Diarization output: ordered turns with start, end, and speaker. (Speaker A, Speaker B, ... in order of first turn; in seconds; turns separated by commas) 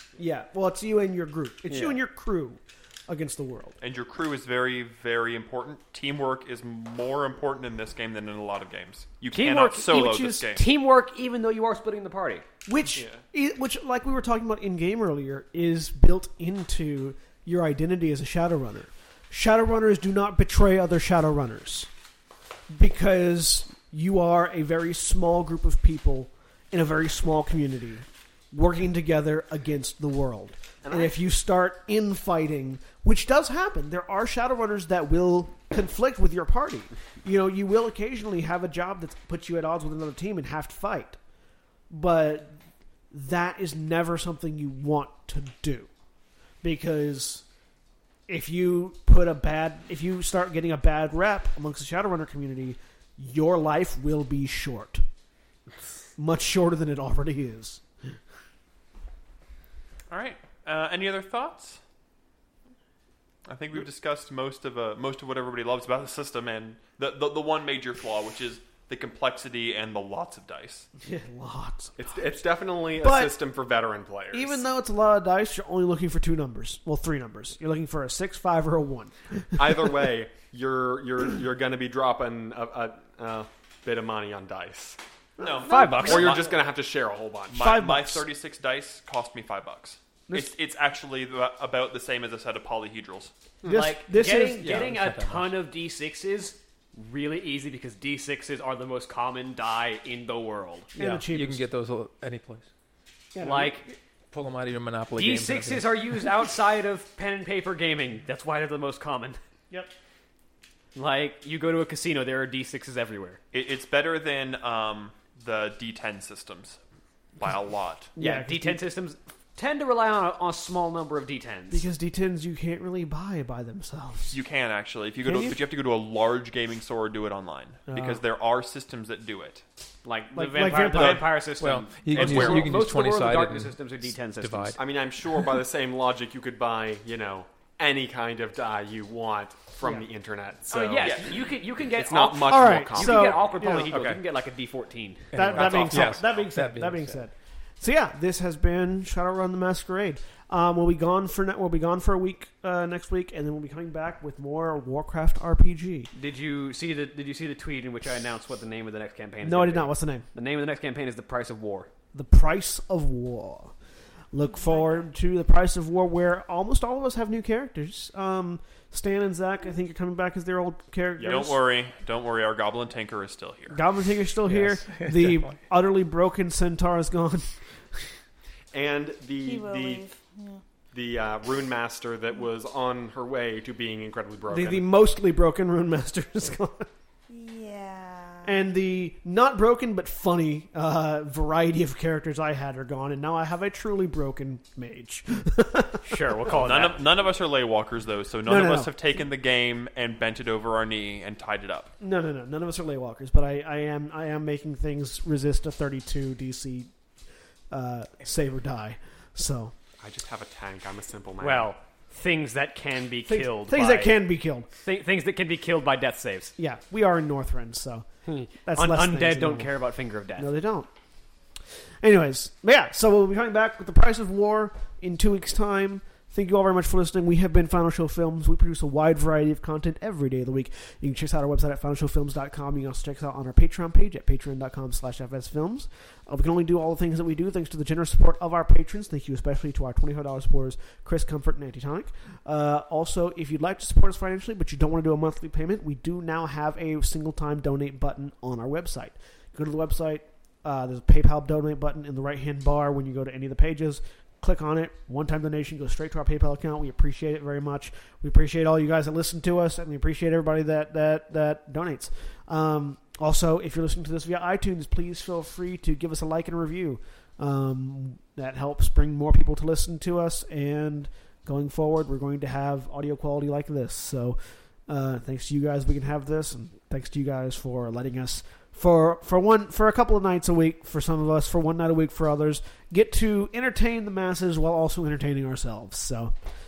Speaker A: 0.2-3.8, Speaker B: 1.7-2.0, Speaker C: 3.8-10.7, Speaker B: 9.3-12.4, Speaker A: 12.7-21.9, Speaker D: 12.9-13.2, Speaker A: 22.7-41.2, Speaker D: 30.9-31.1, Speaker A: 41.9-45.9, Speaker A: 46.6-47.5, Speaker A: 48.3-55.0, Speaker A: 56.2-57.9, Speaker C: 60.1-61.8, Speaker C: 63.5-70.9, Speaker A: 71.0-72.3, Speaker D: 72.0-74.6, Speaker A: 73.0-73.3, Speaker A: 74.3-79.9, Speaker D: 79.6-85.0, Speaker A: 85.4-86.3, Speaker C: 85.4-86.6, Speaker B: 85.7-86.3, Speaker D: 85.9-87.6, Speaker C: 87.5-93.3, Speaker A: 87.6-88.3, Speaker A: 93.6-95.0, Speaker B: 93.7-101.0, Speaker E: 94.2-95.5, Speaker A: 101.0-101.6, Speaker E: 101.0-102.7, Speaker A: 103.3-104.0, Speaker B: 103.4-103.9, Speaker E: 104.3-106.3, Speaker B: 105.1-109.4, Speaker B: 111.0-113.4, Speaker C: 113.5-116.8, Speaker C: 117.4-118.1, Speaker A: 118.2-118.8, Speaker B: 118.2-121.9, Speaker A: 121.7-124.4, Speaker C: 124.3-129.6, Speaker A: 125.2-125.6, Speaker A: 127.9-128.2, Speaker B: 130.1-134.8, Speaker A: 130.4-131.3, Speaker E: 131.0-134.8, Speaker D: 132.2-132.7, Speaker D: 134.8-141.2, Speaker B: 140.7-146.2, Speaker C: 141.0-141.3, Speaker D: 141.9-143.6, Speaker A: 142.5-143.9, Speaker E: 143.6-144.2, Speaker E: 145.3-147.2, Speaker A: 145.3-156.1, Speaker C: 145.6-146.0, Speaker B: 156.2-161.9, Speaker A: 159.4-160.3, Speaker A: 162.1-163.7, Speaker A: 164.3-171.6, Speaker F: 164.6-165.0, Speaker C: 171.2-173.8, Speaker A: 173.7-178.0, Speaker E: 174.4-175.6, Speaker D: 178.7-180.1, Speaker F: 179.4-180.6, Speaker D: 180.9-184.9, Speaker A: 184.5-186.9, Speaker F: 187.3-188.7, Speaker A: 188.4-196.9, Speaker B: 196.0-197.0, Speaker C: 196.5-201.9, Speaker A: 198.5-198.9, Speaker A: 202.0-206.9, Speaker A: 207.7-209.8, Speaker D: 210.0-211.7, Speaker B: 211.4-214.2, Speaker A: 213.3-214.7, Speaker B: 214.7-216.6, Speaker A: 216.6-218.1, Speaker B: 218.3-220.5, Speaker A: 218.7-219.7, Speaker A: 220.4-220.9, Speaker A: 222.0-286.3